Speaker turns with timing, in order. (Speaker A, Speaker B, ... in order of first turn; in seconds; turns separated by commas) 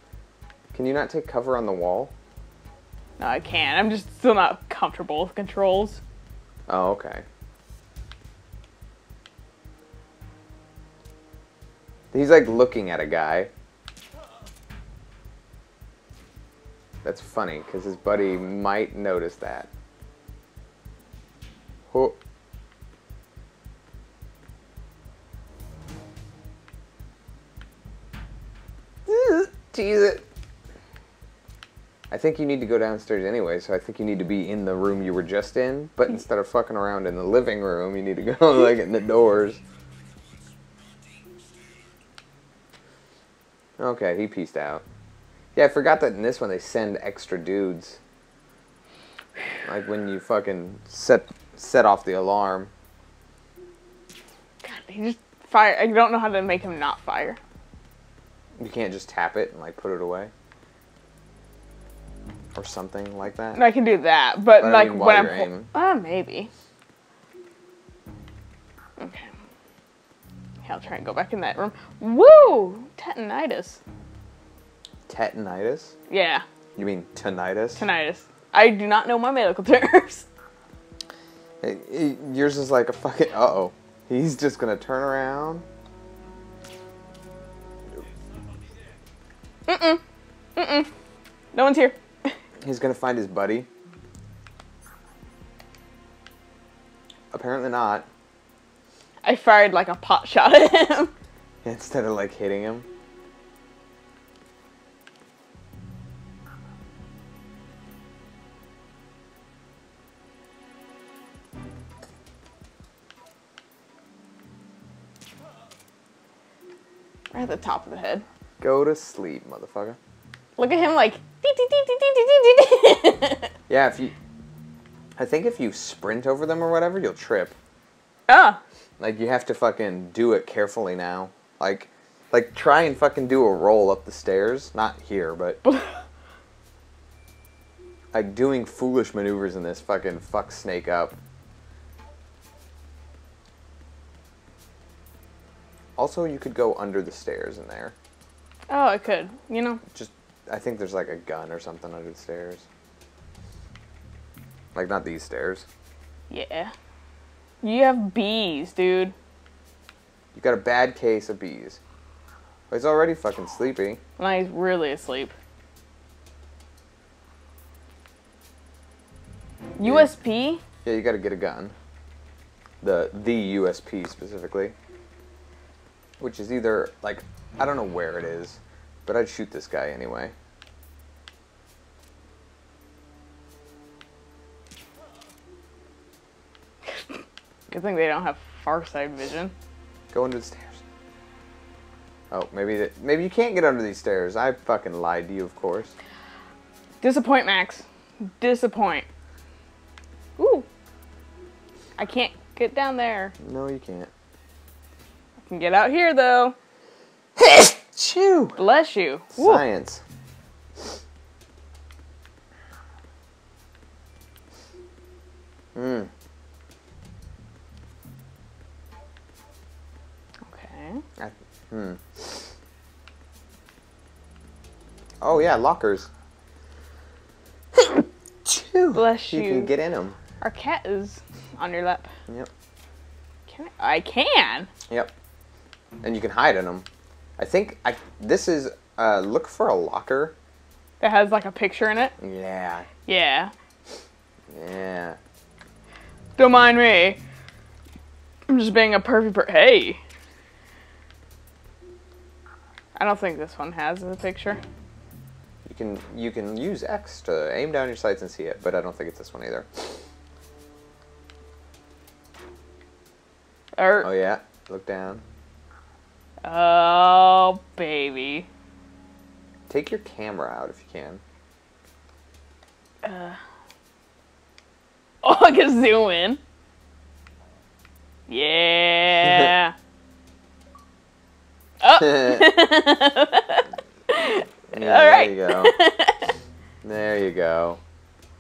Speaker A: 0.7-2.1, Speaker B: 3.2-6.0, Speaker A: 6.7-7.2, Speaker A: 12.1-13.5, Speaker A: 17.0-19.7, Speaker A: 21.9-22.2, Speaker A: 29.1-30.2, Speaker A: 32.1-39.6, Speaker A: 43.8-44.8, Speaker A: 45.5-48.0, Speaker A: 49.6-52.7, Speaker B: 54.6-57.4, Speaker A: 58.6-60.3, Speaker A: 62.5-63.6, Speaker B: 63.5-66.5, Speaker A: 64.6-65.7, Speaker B: 69.0-69.3, Speaker B: 70.7-73.8, Speaker A: 75.1-76.0, Speaker B: 76.1-76.5, Speaker A: 76.8-77.8, Speaker B: 77.8-80.3, Speaker A: 81.6-85.7, Speaker B: 89.7-90.0, Speaker B: 90.6-90.9, Speaker B: 91.5-92.4, Speaker A: 92.6-93.7, Speaker A: 97.3-98.1, Speaker B: 99.2-101.1, Speaker A: 101.6-102.9, Speaker B: 117.3-118.2, Speaker A: 118.6-120.0, Speaker B: 120.6-123.5, Speaker A: 123.7-124.2, Speaker A: 125.2-127.5, Speaker B: 128.3-128.6, Speaker A: 129.0-135.6, Speaker B: 135.7-136.0, Speaker A: 138.1-141.2, Speaker A: 146.0-147.9, Speaker B: 148.7-149.8, Speaker A: 149.9-152.7, Speaker A: 154.8-155.7, Speaker B: 156.3-156.7, Speaker B: 157.6-159.1, Speaker A: 160.3-161.8, Speaker A: 162.7-164.0, Speaker B: 164.2-165.3, Speaker B: 169.8-170.6, Speaker A: 169.8-170.1, Speaker A: 170.8-171.8, Speaker A: 172.8-174.8, Speaker A: 176.2-180.3, Speaker B: 187.7-189.5, Speaker A: 190.1-190.8, Speaker A: 192.3-195.9, Speaker B: 197.0-199.1, Speaker B: 200.4-200.7, Speaker B: 202.0-203.3, Speaker A: 203.4-204.1, Speaker B: 205.4-206.6, Speaker A: 207.4-208.6, Speaker B: 208.6-209.7, Speaker A: 209.3-210.0, Speaker A: 215.8-216.1, Speaker B: 220.5-221.0, Speaker A: 221.2-222.5, Speaker A: 225.2-226.1, Speaker A: 228.4-230.2, Speaker B: 228.9-229.7, Speaker B: 230.4-232.1, Speaker B: 233.5-234.7, Speaker A: 236.0-236.9, Speaker A: 237.4-240.3, Speaker B: 241.0-242.2, Speaker A: 242.2-242.9, Speaker B: 243.1-243.5, Speaker A: 244.5-245.2, Speaker B: 246.4-247.2, Speaker B: 248.5-250.0, Speaker B: 253.0-254.6, Speaker A: 255.7-259.9, Speaker B: 263.8-264.1, Speaker A: 264.0-265.2, Speaker B: 266.4-268.5, Speaker A: 269.7-271.2, Speaker B: 273.0-273.4, Speaker B: 275.2-276.4, Speaker B: 278.3-279.8, Speaker B: 281.8-286.3, Speaker A: 282.0-282.5, Speaker A: 284.7-285.8, Speaker A: 286.8-287.8